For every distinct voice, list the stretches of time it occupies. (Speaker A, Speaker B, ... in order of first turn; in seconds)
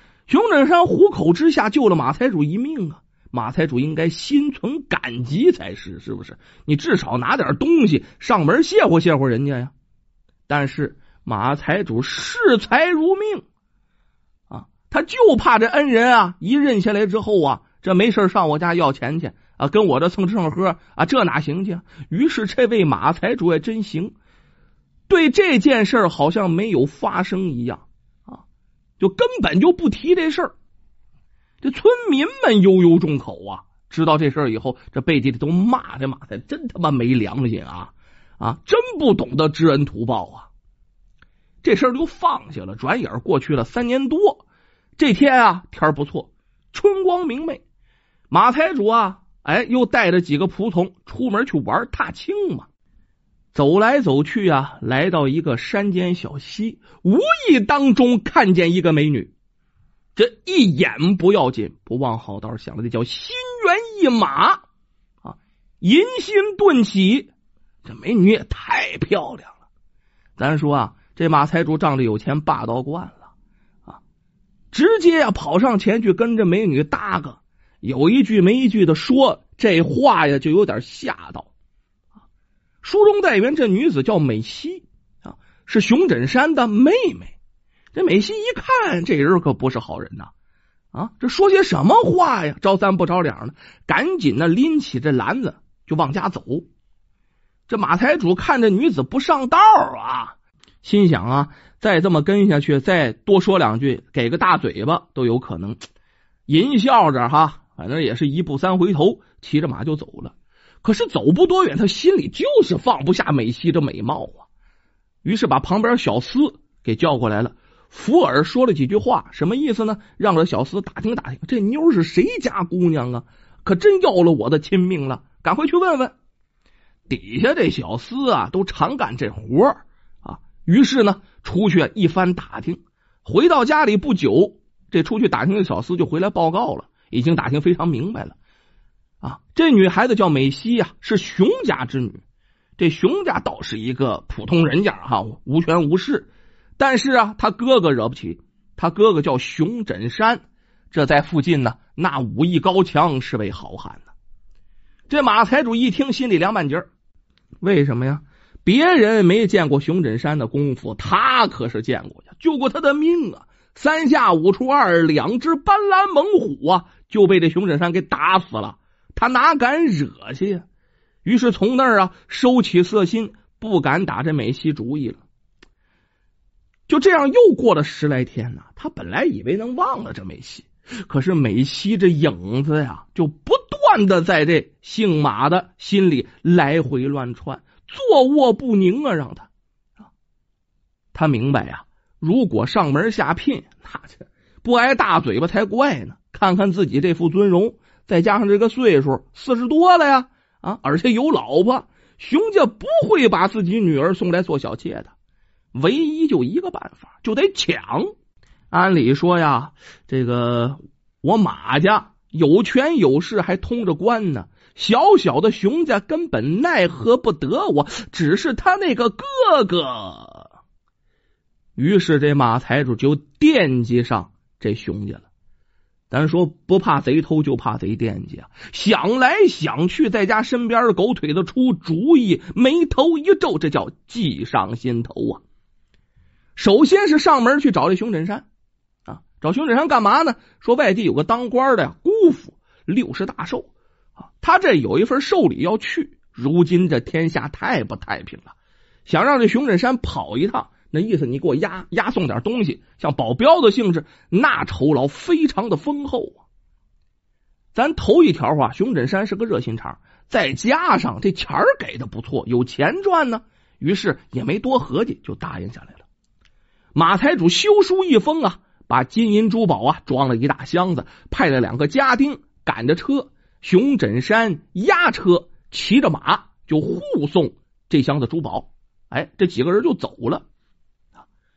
Speaker A: 0.3-9.7, 10.5-13.4, 14.5-24.1, 25.1-28.4, 29.0-30.5, 31.6-40.5, 41.6-44.4, 45.0-47.6, 48.3-52.7, 53.5-59.3, 60.2-64.6, 65.2-67.3, 67.8-69.6, 70.4-73.3, 74.7-81.5, 82.8-87.3, 87.9-90.3, 90.9-96.7, 97.7-105.8, 106.5-114.5, 115.2-126.1, 127.1-138.4, 139.2-142.2, 142.8-154.1, 155.1-156.9, 157.6-170.7, 171.2-175.2, 176.9-189.5, 191.1-205.1, 205.7-208.1, 208.7-220.5, 221.8-225.3, 226.1-235.4, 236.6-238.4, 239.1-243.7, 244.4-248.5, 249.1-256.4, 257.7-266.0, 266.9-280.4